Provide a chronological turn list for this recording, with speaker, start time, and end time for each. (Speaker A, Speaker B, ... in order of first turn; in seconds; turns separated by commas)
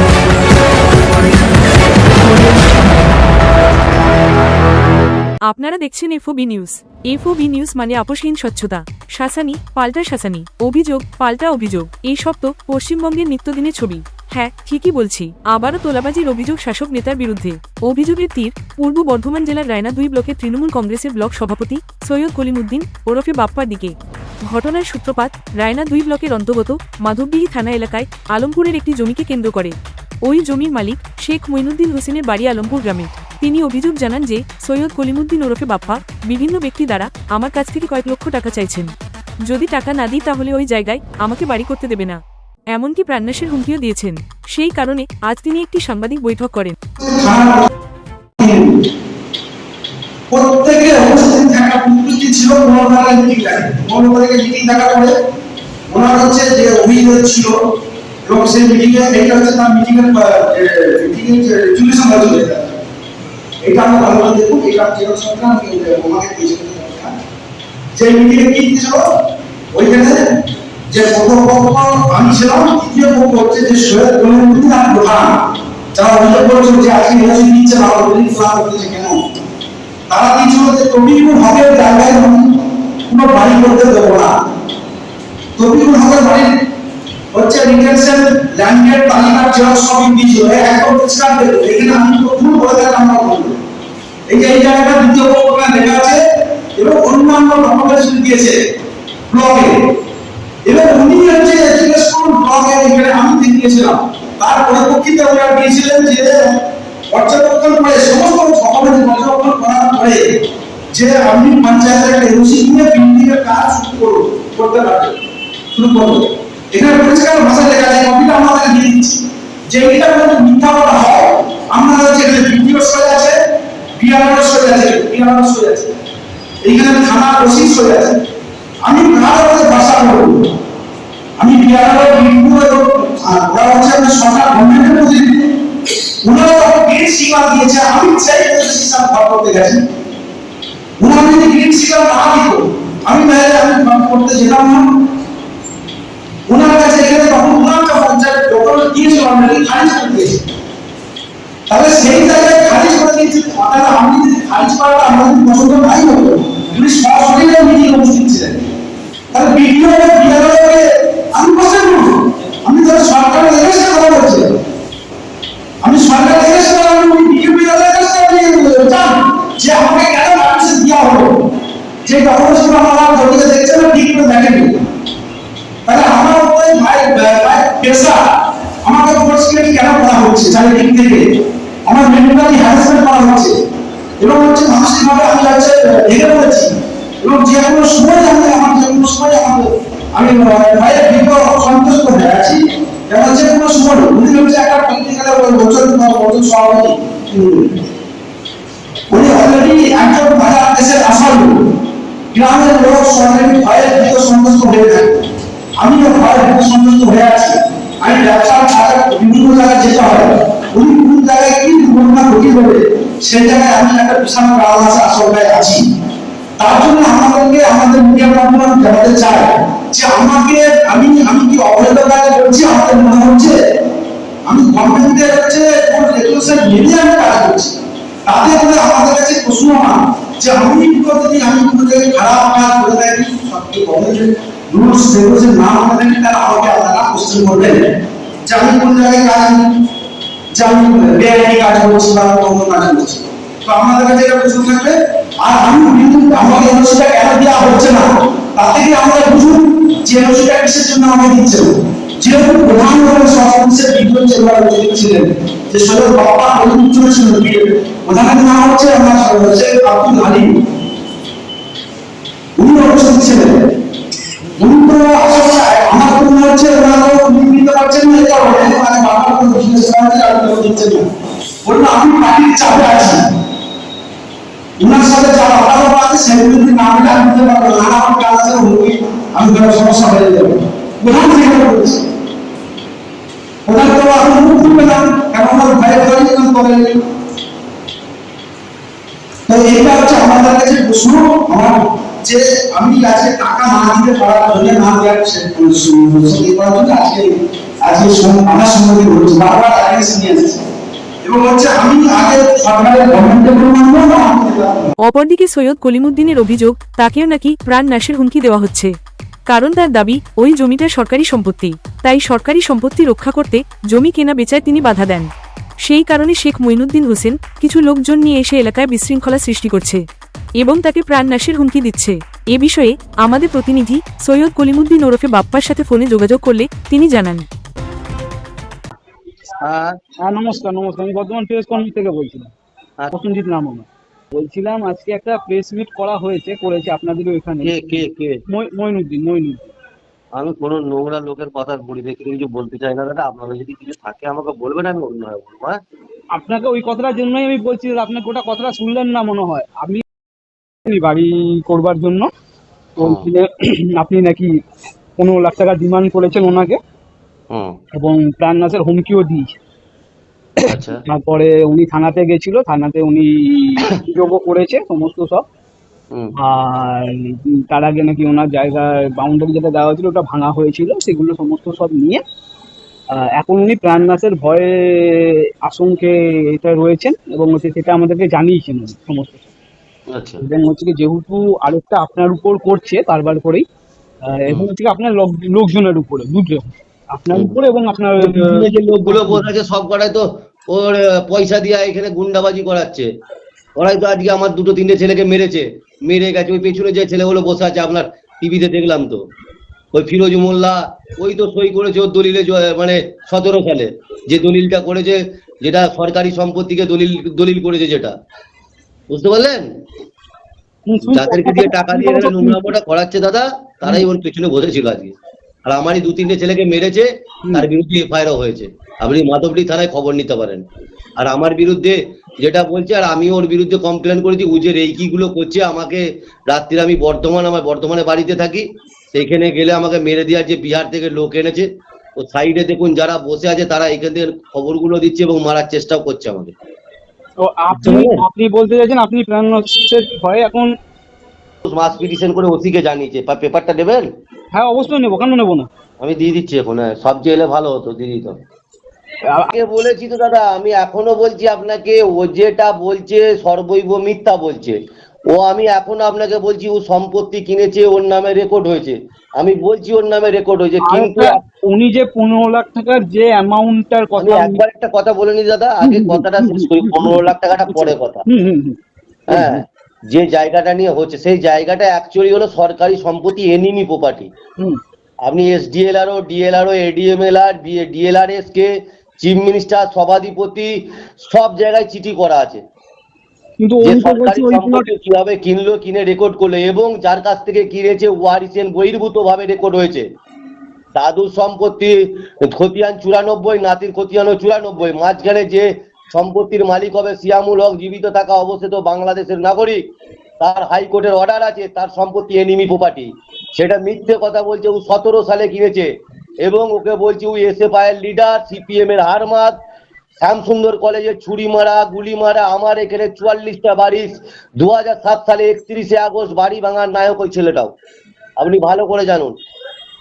Speaker A: 1.2-1.5, Speaker A: 2.2-3.2, Speaker A: 5.5-23.9, Speaker A: 24.5-38.9, Speaker A: 39.5-42.2, Speaker A: 42.7-46.8, Speaker B: 47.0-47.7, Speaker B: 48.4-48.8, Speaker B: 50.3-55.1, Speaker B: 55.9-57.6, Speaker B: 58.2-62.8, Speaker B: 63.6-67.1, Speaker B: 68.0-69.1, Speaker B: 69.7-70.2, Speaker B: 70.9-75.3, Speaker B: 76.0-79.2, Speaker B: 80.1-84.3, Speaker B: 85.6-86.5, Speaker B: 87.3-93.6, Speaker B: 94.3-96.2, Speaker B: 96.8-98.6, Speaker B: 99.3-99.8, Speaker B: 100.7-106.6, Speaker B: 107.1-110.2, Speaker B: 110.9-115.2, Speaker B: 115.7-123.4, Speaker B: 124.0-126.0, Speaker B: 126.6-128.2, Speaker B: 128.8-130.5, Speaker B: 131.4-135.5, Speaker B: 136.2-139.8, Speaker B: 141.0-144.8, Speaker B: 146.5-150.4, Speaker B: 151.7-158.7, Speaker B: 159.3-162.1, Speaker B: 162.6-164.6, Speaker B: 165.8-171.3, Speaker B: 172.1-174.8, Speaker B: 175.9-178.2, Speaker B: 178.8-181.2, Speaker B: 181.9-183.5, Speaker B: 184.2-197.8, Speaker B: 199.1-201.5, Speaker B: 202.3-205.2, Speaker B: 205.8-215.8, Speaker B: 216.6-223.6, Speaker B: 224.5-237.9, Speaker B: 238.5-239.6, Speaker B: 240.5-260.6, Speaker B: 262.6-263.7, Speaker B: 264.6-271.1, Speaker B: 271.6-273.2, Speaker B: 274.8-282.0, Speaker B: 283.7-287.0, Speaker B: 289.5-300.6, Speaker B: 301.2-304.9, Speaker A: 305.0-308.9, Speaker A: 309.5-315.3, Speaker A: 315.8-320.0, Speaker A: 320.6-327.5, Speaker C: 329.6-330.0, Speaker D: 330.2-332.5, Speaker D: 333.1-339.7, Speaker C: 337.6-338.4, Speaker C: 340.4-345.8, Speaker D: 346.4-350.0, Speaker D: 350.9-352.3, Speaker D: 353.0-354.6, Speaker C: 353.0-353.3, Speaker D: 355.2-356.8, Speaker C: 357.5-357.8, Speaker D: 357.9-359.5, Speaker C: 360.7-361.0, Speaker D: 361.1-365.4, Speaker D: 366.4-372.2, Speaker D: 373.1-379.5, Speaker C: 380.1-380.4, Speaker D: 380.4-383.6, Speaker D: 384.2-389.4, Speaker C: 388.2-393.1, Speaker C: 393.8-399.2, Speaker C: 399.9-408.1, Speaker C: 409.1-409.7, Speaker D: 410.9-412.7, Speaker C: 411.1-420.6, Speaker C: 421.2-431.7, Speaker C: 432.2-436.5, Speaker D: 437.4-440.7, Speaker C: 437.8-438.2, Speaker C: 441.7-444.0, Speaker D: 444.5-445.7, Speaker C: 446.0-448.4, Speaker C: 449.5-454.8, Speaker C: 455.3-461.4, Speaker D: 460.9-464.6, Speaker C: 464.2-468.2, Speaker D: 465.8-468.8, Speaker C: 469.3-474.3, Speaker D: 469.3-469.6, Speaker C: 475.3-480.7, Speaker C: 481.2-482.6, Speaker D: 483.6-484.9, Speaker C: 483.8-490.1, Speaker C: 490.9-499.8, Speaker C: 500.4-505.9, Speaker C: 506.4-509.5, Speaker C: 510.2-517.7, Speaker C: 518.4-519.4